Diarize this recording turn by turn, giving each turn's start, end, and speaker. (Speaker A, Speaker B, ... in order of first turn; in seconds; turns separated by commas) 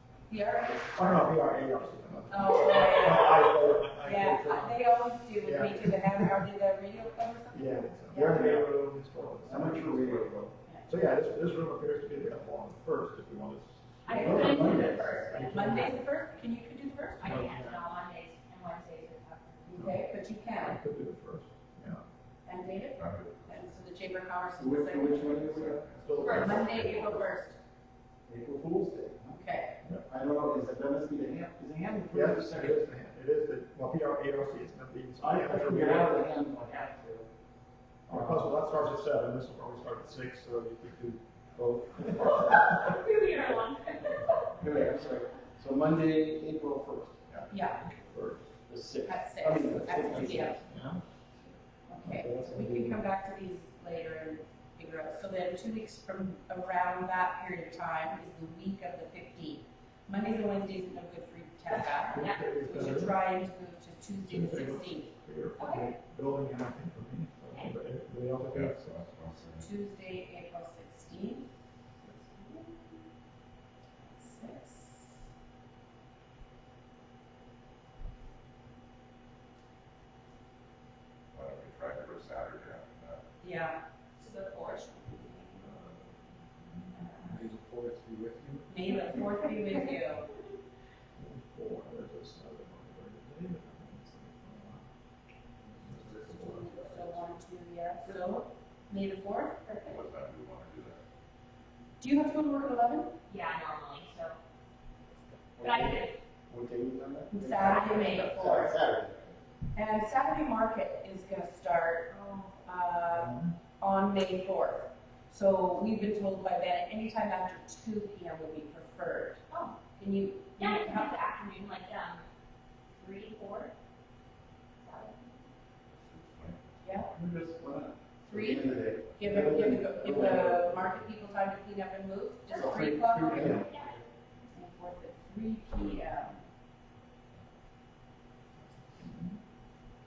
Speaker A: 0.3-1.3, Speaker B: 0.9-4.7, Speaker A: 2.3-3.5, Speaker A: 4.0-8.4, Speaker B: 5.4-6.2, Speaker B: 7.5-15.9, Speaker C: 8.3-8.7, Speaker C: 9.4-10.5, Speaker A: 10.7-10.9, Speaker D: 14.1-15.9, Speaker A: 14.1-14.5, Speaker C: 14.1-15.4, Speaker A: 15.5-17.4, Speaker D: 17.2-19.7, Speaker B: 17.2-17.8, Speaker A: 19.7-20.8, Speaker B: 20.6-22.0, Speaker A: 22.5-25.5, Speaker E: 23.0-23.8, Speaker C: 24.6-27.0, Speaker E: 25.5-27.2, Speaker B: 25.9-27.1, Speaker D: 26.2-26.6, Speaker A: 26.3-27.6, Speaker C: 28.3-29.4, Speaker A: 29.4-29.8, Speaker C: 30.1-32.8, Speaker B: 32.1-36.2, Speaker C: 35.2-37.3, Speaker C: 38.1-38.5, Speaker B: 38.1-42.9, Speaker D: 42.6-44.5, Speaker C: 44.6-47.2, Speaker A: 47.5-47.9, Speaker B: 47.9-48.5, Speaker C: 48.7-50.6, Speaker A: 49.0-50.6, Speaker B: 50.6-51.0, Speaker A: 51.9-65.1, Speaker B: 52.0-53.0, Speaker D: 62.0-62.6, Speaker B: 62.1-63.2, Speaker B: 64.2-69.1, Speaker D: 65.6-65.9, Speaker E: 68.5-69.7, Speaker A: 69.6-71.5, Speaker A: 72.0-73.0, Speaker A: 74.1-75.2, Speaker E: 81.3-83.2, Speaker A: 83.4-85.6, Speaker B: 85.6-87.3, Speaker A: 86.9-87.3, Speaker C: 87.2-88.7, Speaker A: 88.7-90.3, Speaker B: 91.2-94.9, Speaker B: 95.8-97.2, Speaker C: 96.0-96.9, Speaker A: 96.5-100.0, Speaker E: 99.9-101.0, Speaker A: 102.0-103.2, Speaker D: 103.3-104.4, Speaker C: 105.6-109.4, Speaker D: 105.6-106.2, Speaker A: 107.3-108.8, Speaker D: 107.6-108.3, Speaker A: 109.7-121.3, Speaker D: 112.1-112.5, Speaker B: 113.2-113.5, Speaker D: 119.5-119.8, Speaker D: 120.6-122.2, Speaker D: 123.0-123.7, Speaker D: 124.8-125.4, Speaker E: 126.0-126.6, Speaker A: 126.8-127.1, Speaker C: 127.1-130.9, Speaker A: 128.3-133.6, Speaker C: 132.5-133.9, Speaker B: 133.3-133.7, Speaker D: 133.6-133.9, Speaker A: 134.5-136.4, Speaker B: 139.0-139.3